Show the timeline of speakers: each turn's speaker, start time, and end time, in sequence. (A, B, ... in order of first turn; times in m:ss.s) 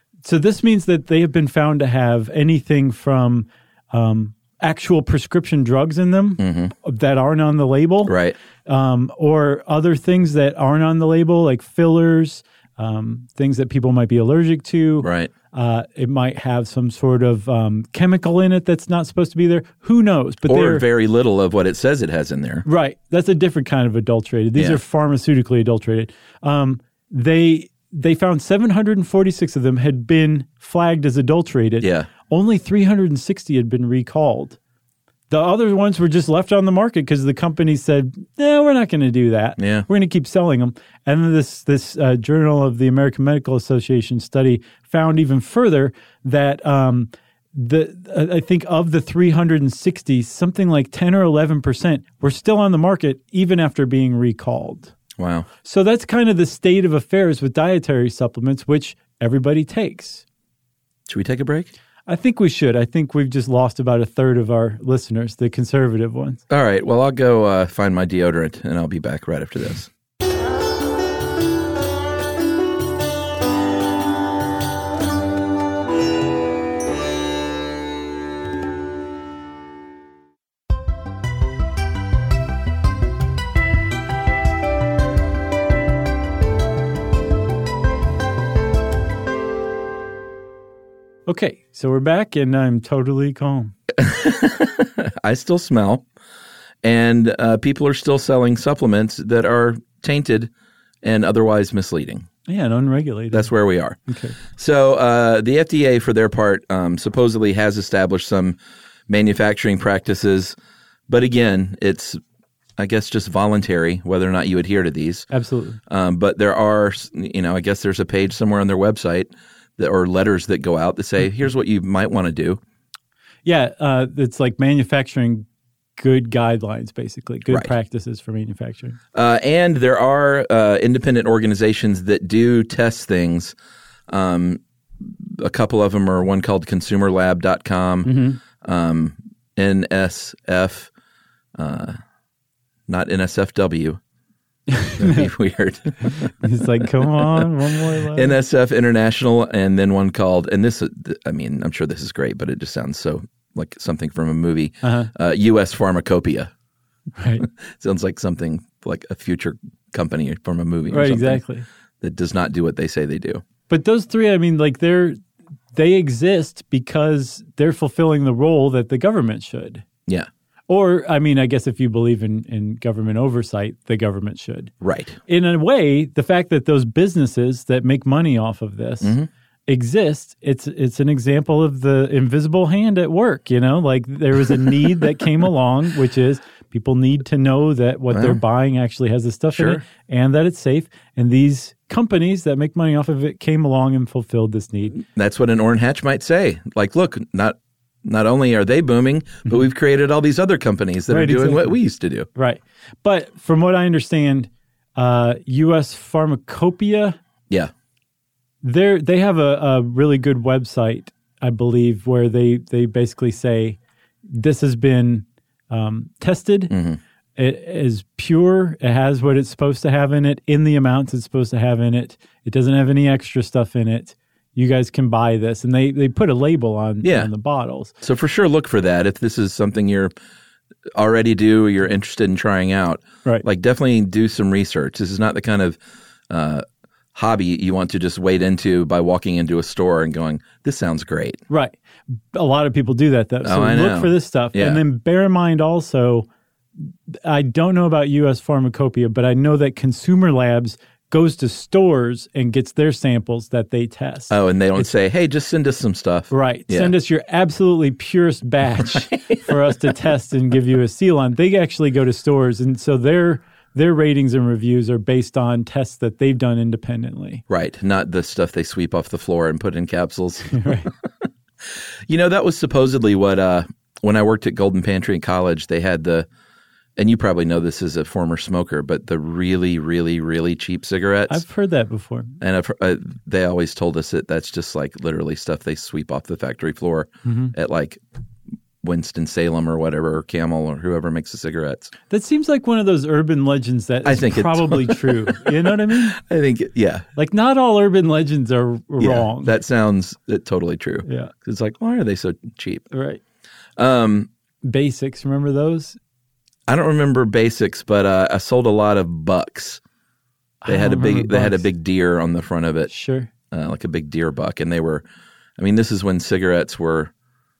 0:00.2-0:08.1 A
0:06.4-0:06.7 B
0:08.0-0:08.4 B
0:08.6-0:20.8 A
0:15.0-0:15.3 B
0:20.4-0:22.6 B
0:22.6-0:34.6 A
0:31.8-0:32.1 B
0:35.3-0:54.9 A
0:39.6-0:39.9 B
0:55.2-0:55.5 B
0:55.6-1:00.2 A
1:01.1-1:01.7 B
1:02.1-1:06.4 A
1:06.5-1:09.9 B
1:31.3-1:33.7 A
1:33.9-1:36.0 B
1:36.8-1:40.5 B
1:41.0-1:42.3 B
1:42.5-1:43.5 A
1:43.3-1:48.6 B
1:44.1-1:44.4 A
1:49.1-1:50.5 B
1:51.1-1:52.2 B
1:52.8-1:55.3 B
1:55.3-1:55.8 A
1:55.9-2:02.6 B
2:03.4-2:05.4 A
2:06.0-2:09.0 A
2:09.1-2:13.5 B
2:14.1-2:20.9 B
2:18.0-2:18.4 A
2:21.6-2:22.0 B
2:22.9-2:24.0 B
2:24.7-2:25.3 A
2:25.0-2:27.5 B
2:26.0-2:28.3 A
2:28.0-2:36.5 B
2:34.8-2:35.1 A
2:37.2-2:37.5 A
2:37.5-2:41.4 B
2:40.9-2:41.6 A
2:42.0-2:43.4 B
2:43.7-2:45.2 A
2:45.7-2:49.8 A
2:50.7-2:54.7 A
2:54.8-2:55.2 B
2:55.3-2:59.1 A
2:59.0-2:59.3 B
2:59.7-3:15.0 A
3:08.1-3:08.4 B
3:09.5-3:09.8 B
3:15.0-3:22.3 B
3:21.1-3:21.8 A
3:22.3-3:27.2 A
3:28.6-3:36.7 A
3:36.7-3:37.0 B
3:37.4-3:47.9 A
3:47.0-3:47.3 B
3:48.0-3:50.1 B
3:50.9-3:56.6 B
3:57.1-4:01.4 B
4:01.5-4:06.3 A
4:03.4-4:04.8 B
4:06.8-4:14.8 A
4:14.3-4:16.9 B
4:16.3-4:27.4 A
4:19.0-4:19.3 B
4:27.5-4:30.9 B
4:30.5-4:30.9 A
4:31.6-4:36.3 B
4:37.0-4:41.4 B
4:41.3-4:42.3 A
4:42.4-4:48.0 B
4:47.2-4:47.5 A
4:48.8-4:51.9 B
4:52.1-4:56.2 A
4:54.0-4:57.1 B
4:57.2-4:59.5 A
4:59.0-5:02.8 B
5:01.0-5:01.3 A
5:02.9-5:03.2 A
5:03.8-5:04.3 B
5:04.6-5:06.0 A
5:06.7-5:09.8 B
5:10.6-5:11.6 A
5:10.7-5:12.9 B
5:12.9-5:13.3 A
5:13.5-5:15.0 B
5:15.6-5:17.1 B